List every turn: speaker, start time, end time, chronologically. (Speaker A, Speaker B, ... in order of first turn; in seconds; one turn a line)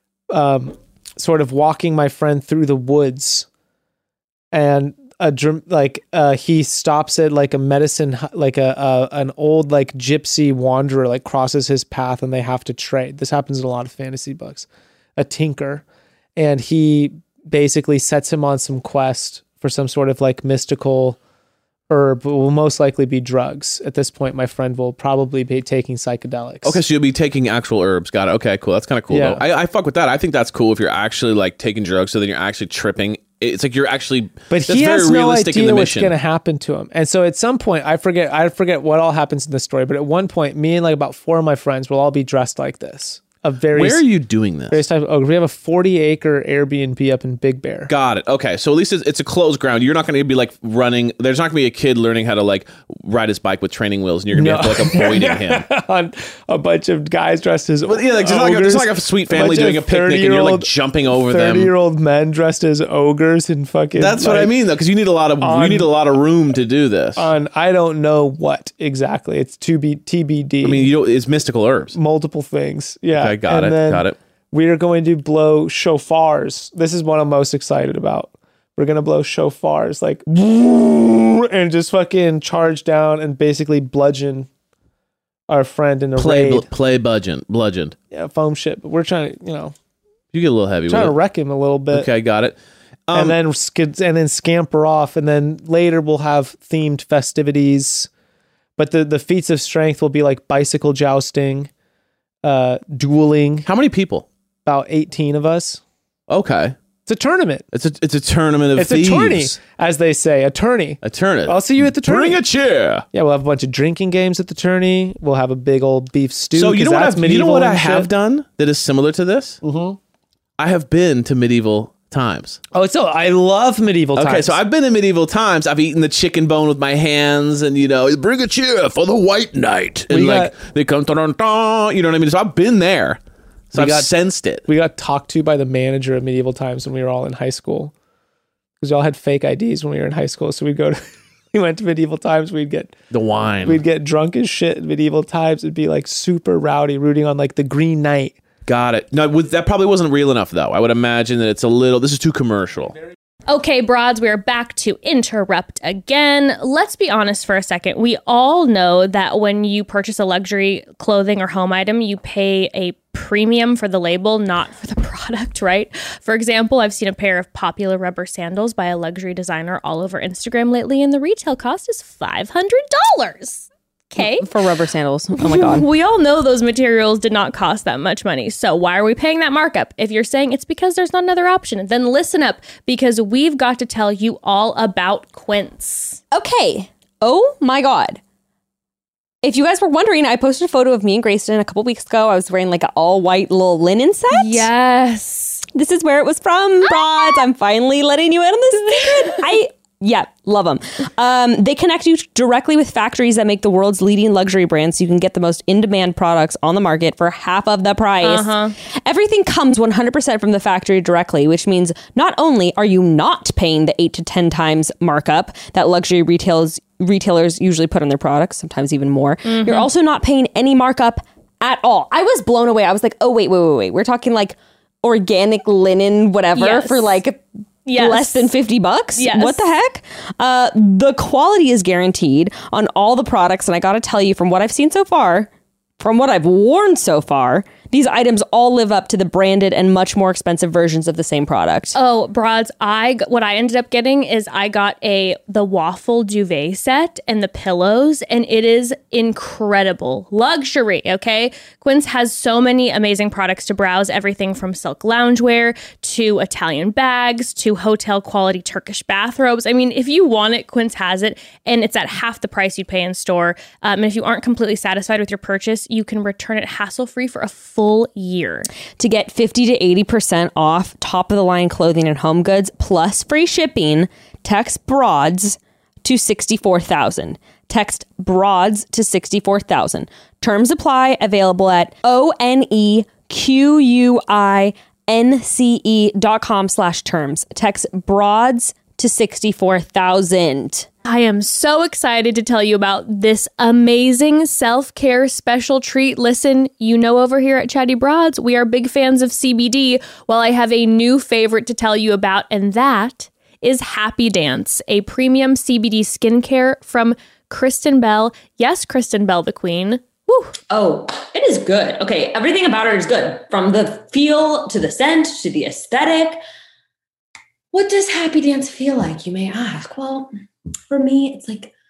Speaker A: 0.3-3.5
Speaker A: 4.5-15.8
Speaker A: 16.4-21.2
Speaker A: 21.9-26.8
Speaker B: 26.6-36.1
Speaker A: 29.1-29.4
Speaker A: 34.5-44.0
Speaker B: 43.7-44.8
Speaker A: 44.7-47.9
Speaker B: 47.9-55.6
Speaker A: 54.3-64.5
Speaker B: 57.9-61.7
Speaker B: 64.0-67.3
Speaker A: 65.4-65.9
Speaker A: 67.2-70.9
Speaker B: 70.6-72.0
Speaker A: 71.9-84.5
Speaker B: 73.1-74.2
Speaker A: 85.5-86.7
Speaker B: 86.2-88.0
Speaker A: 88.1-89.7
Speaker B: 90.3-91.2
Speaker A: 90.9-92.1
Speaker B: 91.9-93.4
Speaker A: 93.1-98.1
Speaker A: 98.8-101.7
Speaker A: 102.4-103.7
Speaker B: 103.6-104.2
Speaker A: 104.6-105.8
Speaker B: 106.3-106.8
Speaker A: 107.0-107.7
Speaker B: 107.7-109.5
Speaker A: 108.8-112.4
Speaker B: 111.0-113.0
Speaker A: 113.1-118.1
Speaker B: 116.5-119.6
Speaker A: 119.6-120.0
Speaker B: 120.6-122.6
Speaker A: 122.7-124.6
Speaker B: 124.2-133.2
Speaker A: 130.1-130.5
Speaker B: 133.7-134.7
Speaker A: 133.7-134.1
Speaker A: 134.6-137.9
Speaker A: 138.8-141.0
Speaker A: 141.5-142.9
Speaker B: 143.1-143.8
Speaker A: 143.6-148.3
Speaker B: 148.7-153.0
Speaker C: 153.5-174.5
Speaker D: 174.2-175.9
Speaker C: 175.4-186.2
Speaker D: 186.3-188.2
Speaker D: 189.4-194.7
Speaker C: 194.3-195.6
Speaker D: 195.7-227.4
Speaker C: 199.0-199.4
Speaker C: 208.2-208.7
Speaker C: 219.4-219.9
Speaker C: 226.6-227.2
Speaker C: 227.8-228.5
Speaker D: 227.9-241.9
Speaker C: 229.2-229.6
Speaker C: 241.9-268.7
Speaker D: 269.0-290.9
Speaker C: 291.1-310.6
Speaker E: 310.7-316.4
Speaker E: 317.7-320.3
Speaker E: 320.9-321.7